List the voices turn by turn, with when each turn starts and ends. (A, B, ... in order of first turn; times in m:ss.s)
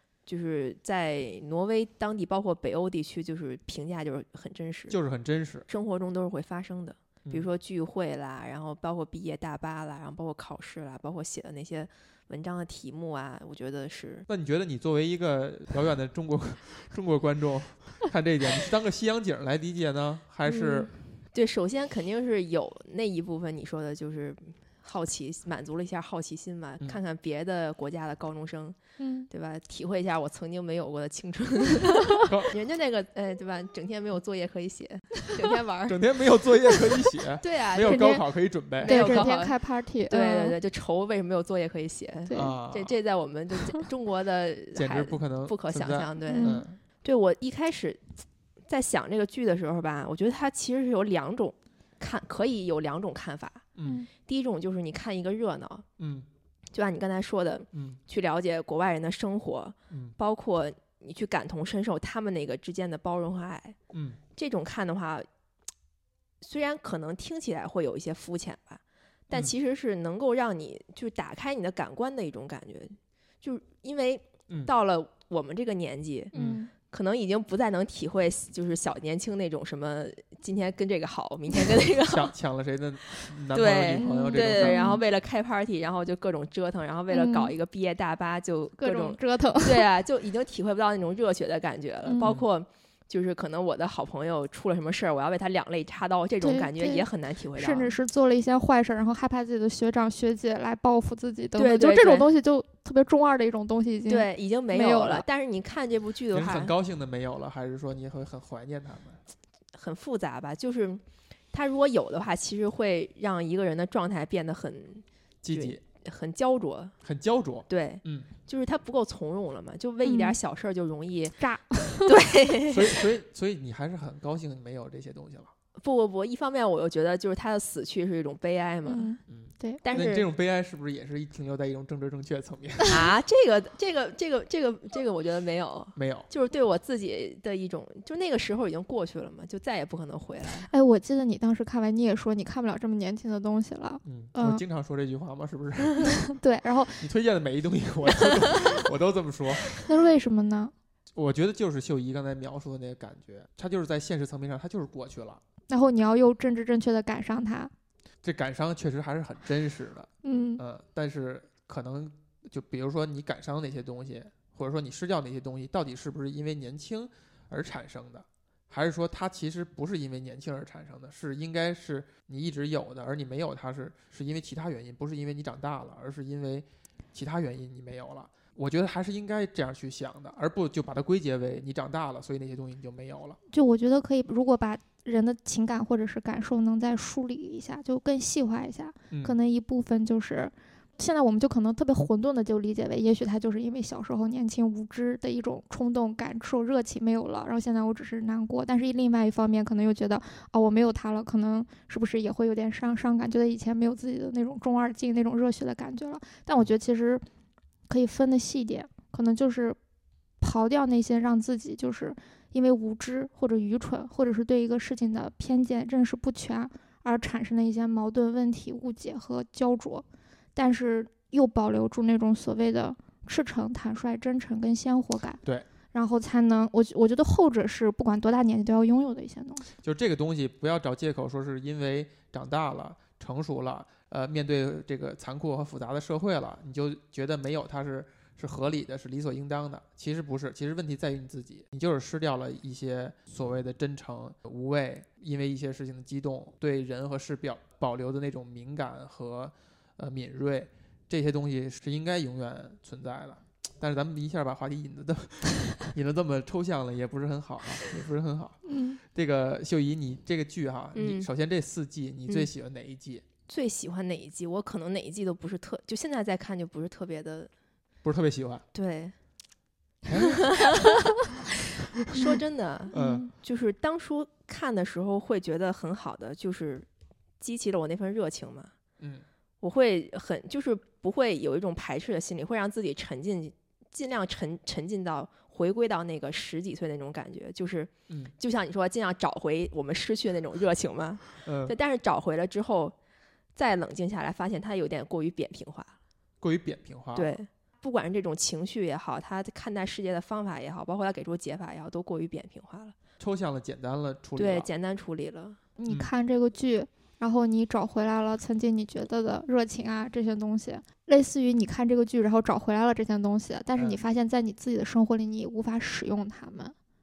0:00.3-0:05.0 A
0:04.9-0:05.7 B
0:05.7-0:14.3 A
0:14.3-0:20.9 B
0:20.5-0:28.8 A
0:29.0-0:29.3 C
0:29.3-0:36.0 A
0:32.3-0:32.5 B
0:35.9-0:39.3 B
0:37.4-0:38.2 A
0:37.8-0:38.2 C
0:38.8-0:39.6 A
0:38.8-0:40.6 C
0:40.1-0:48.0 A
0:42.3-0:42.5 C
0:42.3-0:43.0 B
0:44.8-0:46.8 B
0:46.3-0:46.6 C
0:48.7-0:53.6 A
0:53.8-0:54.0 B
0:53.8-0:54.1 C
0:54.2-0:55.9 A
0:56.0-0:56.3 B
0:56.7-1:03.8 A
0:57.7-0:58.0 B
1:03.9-1:04.2 B
1:04.4-1:05.3 A
1:06.4-1:22.3 A
1:16.3-1:16.7 C
1:16.4-1:16.6 B
1:22.0-1:24.9 B
1:23.5-1:38.0 A
1:24.0-1:25.0 C
1:27.1-1:27.5 C
1:28.8-1:29.8 C
1:32.0-1:32.3 C
1:36.4-1:45.2 C
1:41.6-1:42.3 A
1:44.1-1:46.7 A
1:46.3-1:49.2 B
1:49.7-1:56.9 A
1:55.4-1:55.8 B
1:57.0-1:58.3 B
1:57.7-2:01.4 A
2:00.0-2:00.4 C
2:01.4-2:02.2 C
2:02.0-2:03.0 A
2:02.7-2:05.5 B
2:05.8-2:09.1 A
2:08.8-2:09.8 C
2:09.3-2:13.0 B
2:09.8-2:10.3 A
2:12.9-2:20.7 A
2:16.0-2:16.3 B
2:20.6-2:24.6 C
2:24.0-2:26.2 B
2:26.0-2:27.1 C
2:27.0-2:29.7 B
2:29.7-2:30.7 C
2:31.2-2:35.4 B
2:35.7-2:37.7 C
2:38.2-3:03.4 B
2:40.2-2:40.6 C
3:03.5-3:27.2 C
3:09.1-3:09.4 B
3:27.9-3:29.8 C
3:30.4-3:45.4 C
3:45.9-3:49.7 C
3:49.8-4:23.2 B
4:18.6-4:19.0 C
4:20.9-4:21.3 A
4:23.5-4:27.5 A
4:28.0-4:28.6 B
4:28.7-4:29.2 A
4:30.1-4:30.6 B
4:30.2-4:30.9 A
4:32.1-4:36.9 A
4:32.9-4:33.3 C
4:32.9-4:33.3 B
4:37.4-4:38.7 A
4:39.6-4:53.0 A
4:51.4-4:51.7 B
4:53.6-4:56.0 A
4:56.4-4:57.4 B
4:57.2-5:03.0 A
5:03.2-5:04.7 B
5:04.4-5:05.6 A
5:05.8-5:16.8 C
5:13.8-5:14.0 B